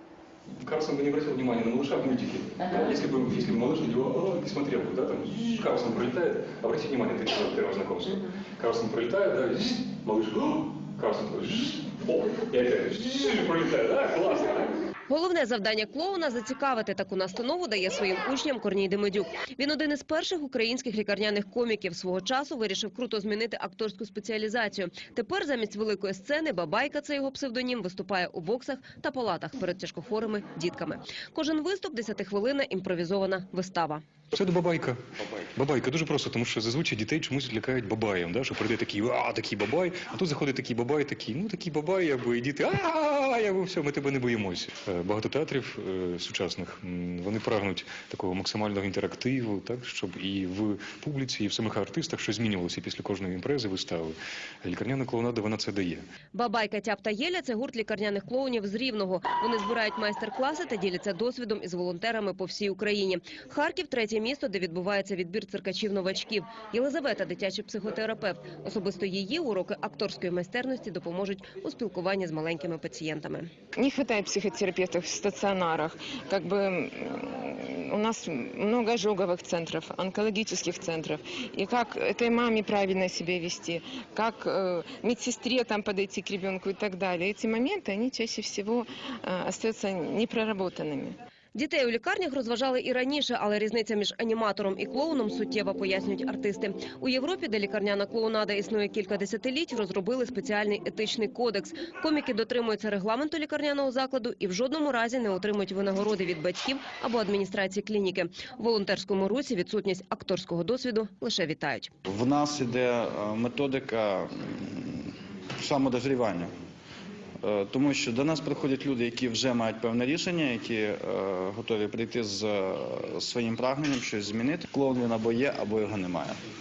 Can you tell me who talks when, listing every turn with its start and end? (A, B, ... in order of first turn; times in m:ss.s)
0:00.5-0:14.7 A
0:15.1-0:34.0 B
0:34.3-0:35.0 A
0:35.6-0:56.0 A
0:56.3-1:13.5 B
1:13.8-1:31.2 C
1:31.6-1:51.9 B
1:52.1-1:56.5 D
1:57.4-2:06.4 D